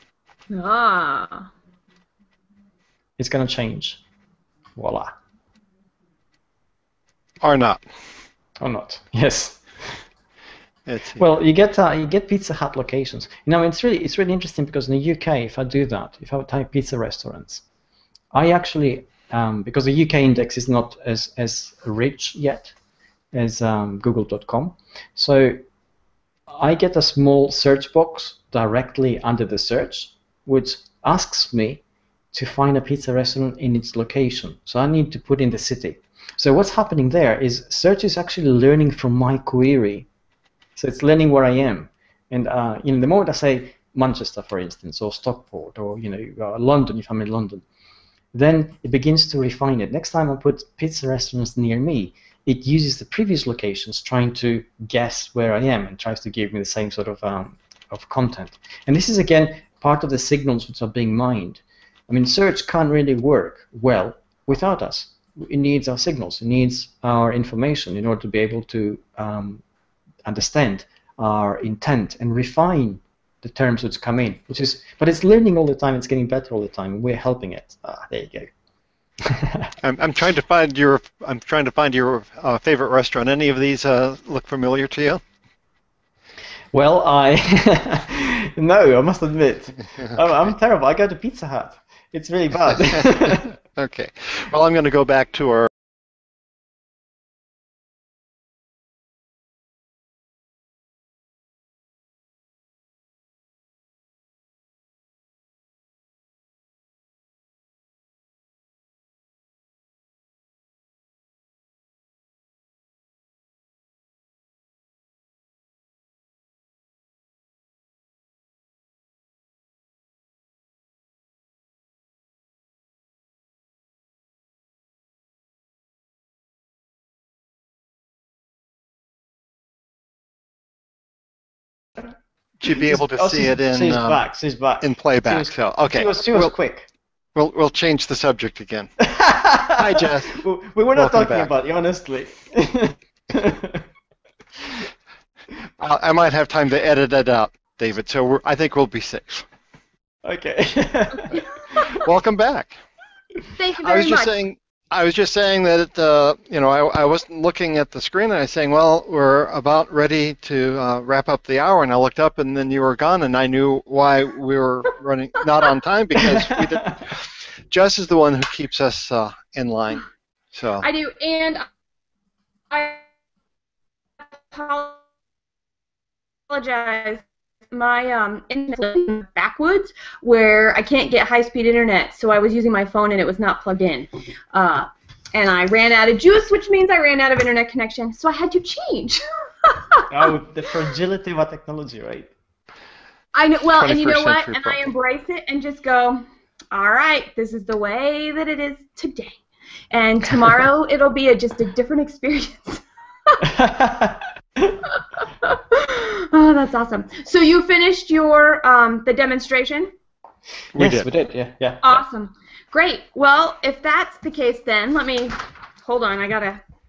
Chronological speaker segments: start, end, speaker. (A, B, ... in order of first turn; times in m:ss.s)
0:00.5-0:01.5 A
0:03.2-0:04.0 B
0:04.8-0:05.2 B
0:07.4-0:07.8 C
0:08.6-0:10.0 B
0:10.9-0:11.2 C
0:11.2-0:17.6 B
0:18.3-0:22.8 B
0:23.3-0:25.6 B
0:26.5-0:31.8 B
0:32.3-0:40.1 B
0:40.8-0:47.6 B
0:48.3-1:09.6 B
1:10.2-1:18.5 B
1:19.2-1:19.7 B
1:19.8-1:25.2 C
1:26.7-1:33.5 B
1:32.8-1:35.7 C
2:12.6-2:14.2 C
2:12.7-2:16.9 B
2:14.8-2:16.5 C
2:17.4-2:19.0 C
2:19.0-2:23.8 B
2:19.7-2:20.4 C
2:20.9-2:21.5 C
2:25.8-2:29.5 C
2:30.2-2:32.0 B
2:31.9-2:32.8 C
2:33.6-2:34.3 A
2:33.8-2:50.8 C
2:46.2-2:46.9 B
2:50.8-2:51.7 A
2:52.7-2:53.0 A
2:54.4-2:55.0 A
2:56.5-3:10.0 A
3:10.1-3:12.3 B
3:13.4-3:19.4 A
3:13.7-3:14.9 C
3:19.9-3:23.4 A
3:23.4-3:24.7 B
3:24.9-3:29.9 A
3:30.8-3:31.1 C
3:30.8-3:32.0 B
3:31.8-3:36.6 A